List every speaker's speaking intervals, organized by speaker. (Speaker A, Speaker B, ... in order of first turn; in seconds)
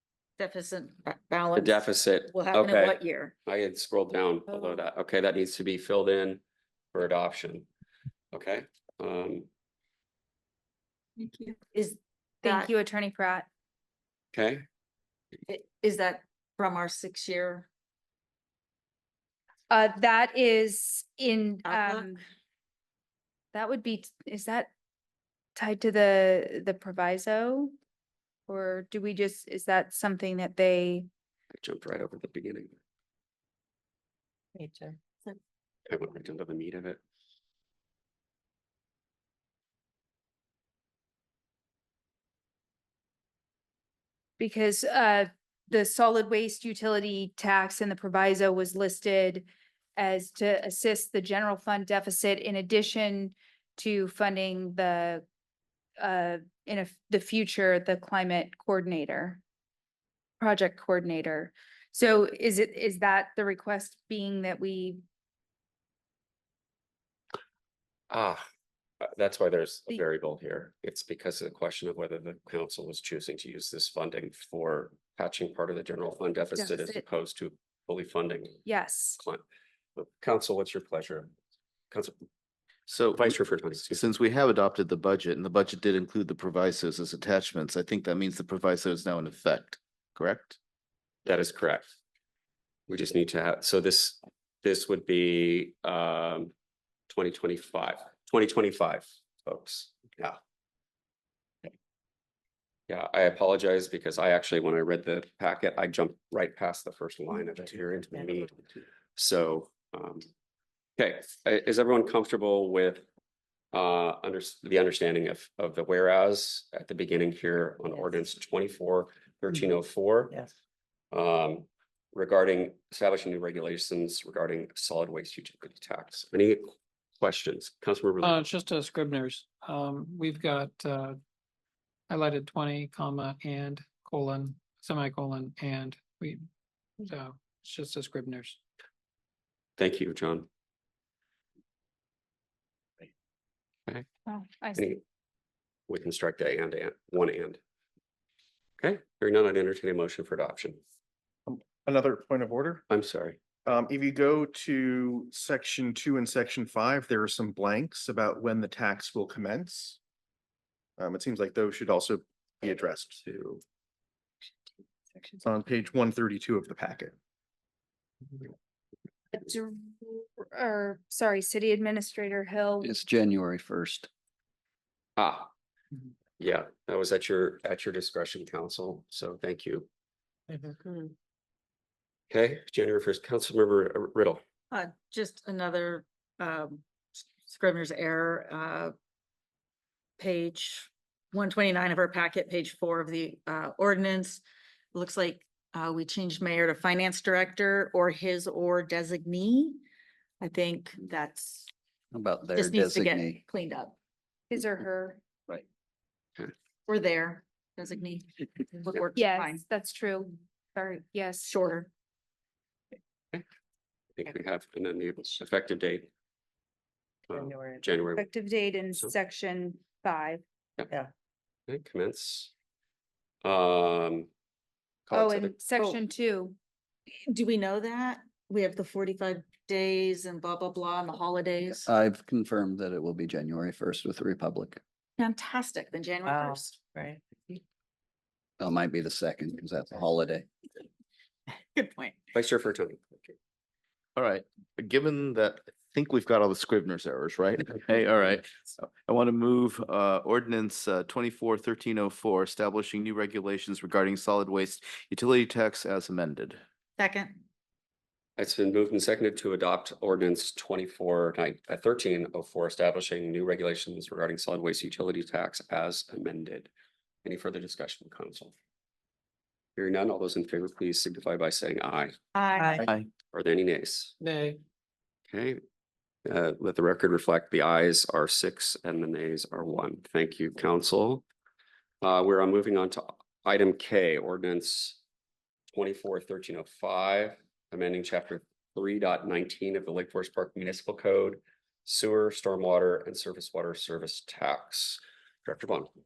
Speaker A: 0.4-3.3, 11.2-12.7, 15.5-17.7, 21.6-22.1, 184.7-188.9, 190.2-194.4, 194.9-199.8, 200.4-201.7, 202.5-203.9, 206.9-209.6, 211.4-211.9, 227.2-231.9, 235.2-236.8, 241.7-242.2, 257.0-257.4, 272.3-272.9
Speaker B: 1.5-6.4, 6.9-7.7, 8.3-9.5, 14.3-14.6, 31.6-32.8, 35.9-37.0, 68.1-68.4, 69.0-78.6, 80.0-81.3, 81.9-82.2, 83.2-84.0, 91.2-91.9, 92.9-96.5, 97.1-100.4, 102.9-108.6, 109.2-110.3, 111.0-113.0, 113.7-120.3, 121.1-128.5, 139.8-140.5, 144.7-145.0, 145.9-147.6, 148.8-150.8, 152.9-153.4, 175.2-175.5, 176.4-179.9, 182.3-184.4, 214.2-216.1, 217.3-218.3, 221.7-222.5, 223.4-224.3, 225.1-225.5, 242.3-243.3, 258.4-266.7, 267.2-268.5, 269.8-272.1, 273.3-274.1, 275.3-275.6, 276.2-281.2, 282.0-285.0, 285.7-295.9
Speaker C: 12.4-13.4, 19.7-22.2, 23.5-24.7, 25.6-27.7, 28.5-31.1, 44.4-55.2, 56.0-59.4, 60.4-65.0, 76.5-77.0, 78.7-79.2, 144.3-144.9, 169.3-172.9, 204.5-205.2, 209.1-211.6, 218.1-220.4, 225.1-226.6
Speaker D: 34.5-35.4, 180.5-181.1, 217.3-218.0, 236.2-237.2, 272.6-272.9
Speaker E: 82.9-83.3, 83.9-90.6, 244.2-256.6
Speaker F: 128.2-131.2, 132.1-136.4, 137.0-138.6
Speaker G: 151.5-152.8, 153.7-160.0, 161.0-163.6, 165.4-167.1
Speaker H: 172.8-174.1, 202.1-203.4, 231.8-234.8, 238.6-240.5